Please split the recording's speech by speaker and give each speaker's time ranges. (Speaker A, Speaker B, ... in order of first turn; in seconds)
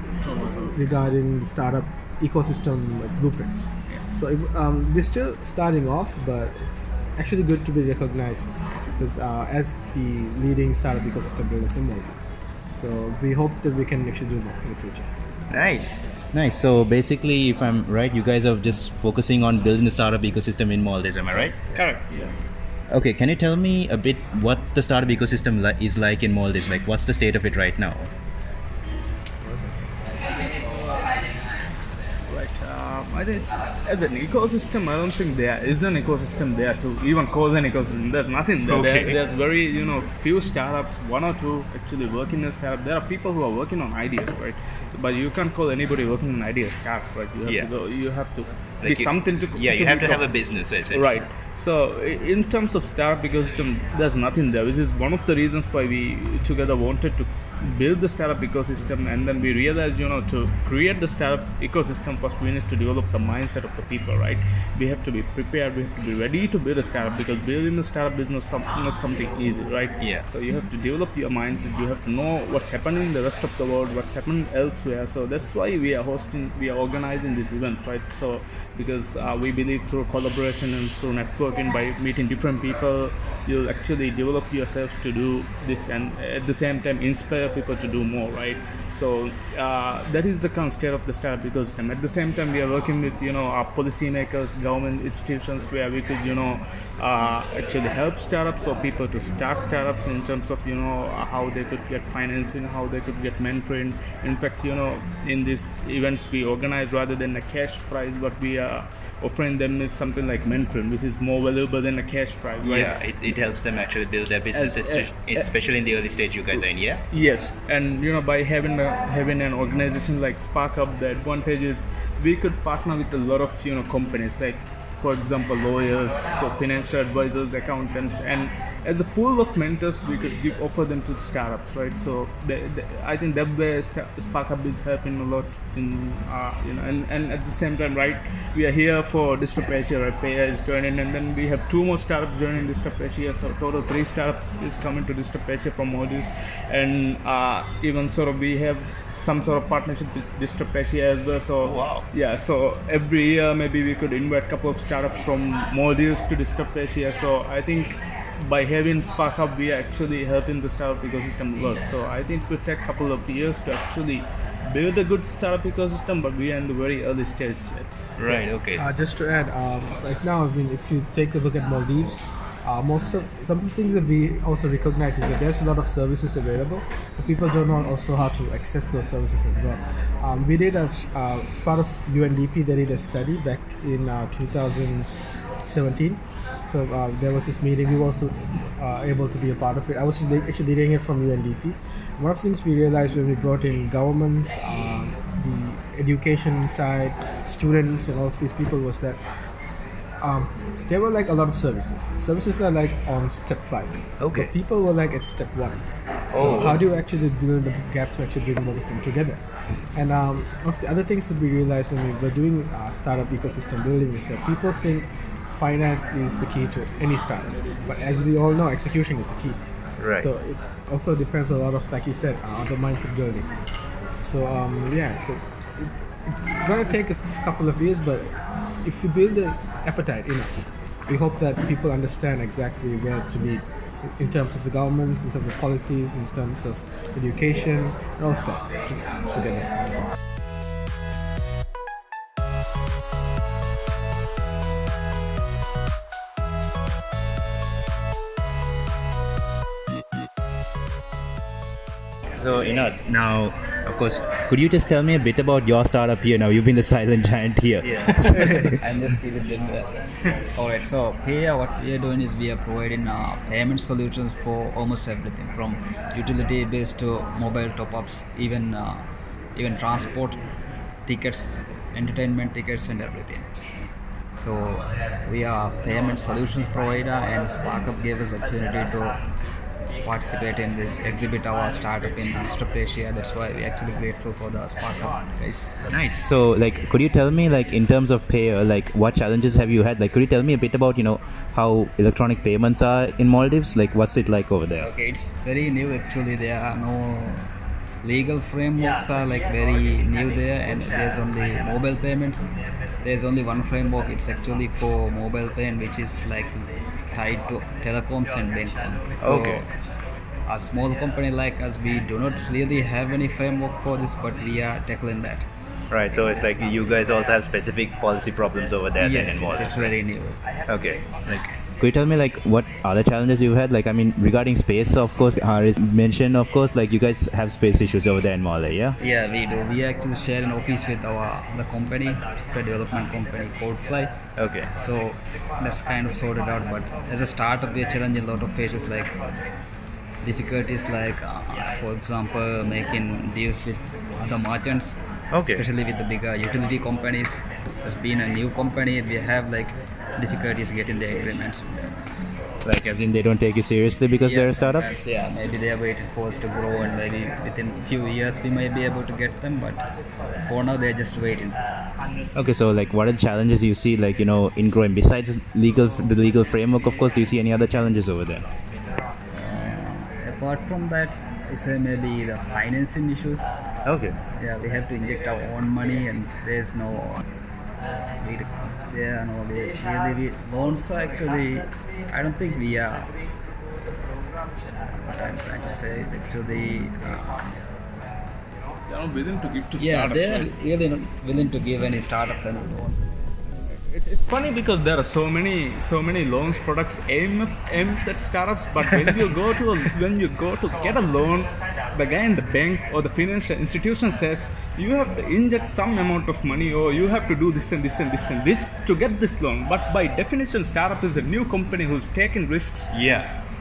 Speaker A: 0.2-0.7, 21.7-22.3, 32.3-50.3, 50.9-112.9, 114.5-115.5, 116.5-168.1, 388.9-390.5, 393.5-413.0
Speaker B: 0.7-15.4, 168.7-209.4, 209.9-219.6, 220.1-223.5, 224.1-240.1
Speaker C: 15.5-21.6, 22.9-28.1, 38.6-39.2, 47.4-47.7, 48.8-51.1, 112.6-117.0, 151.6-152.0, 168.2-168.8, 204.2-204.5, 206.3-206.8, 220.0-220.3, 252.3-258.8, 285.9-294.9, 309.2-309.6, 315.9-319.9, 320.7-328.9, 334.4-334.7, 345.3-345.6, 352.6-354.8, 362.3-368.4, 373.9-374.2, 412.9-413.3
Speaker D: 258.4-269.0, 269.6-270.4, 271.1-273.4, 274.4-279.2, 280.0-285.7, 294.8-297.5, 298.0-302.4, 303.0-309.7, 310.5-315.5, 319.0-320.4, 329.0-334.1, 334.7-339.1, 340.2-351.9, 354.2-359.8, 360.4-361.6, 369.3-373.6, 374.4-377.2, 378.2-383.1, 384.9-387.4, 389.8-393.1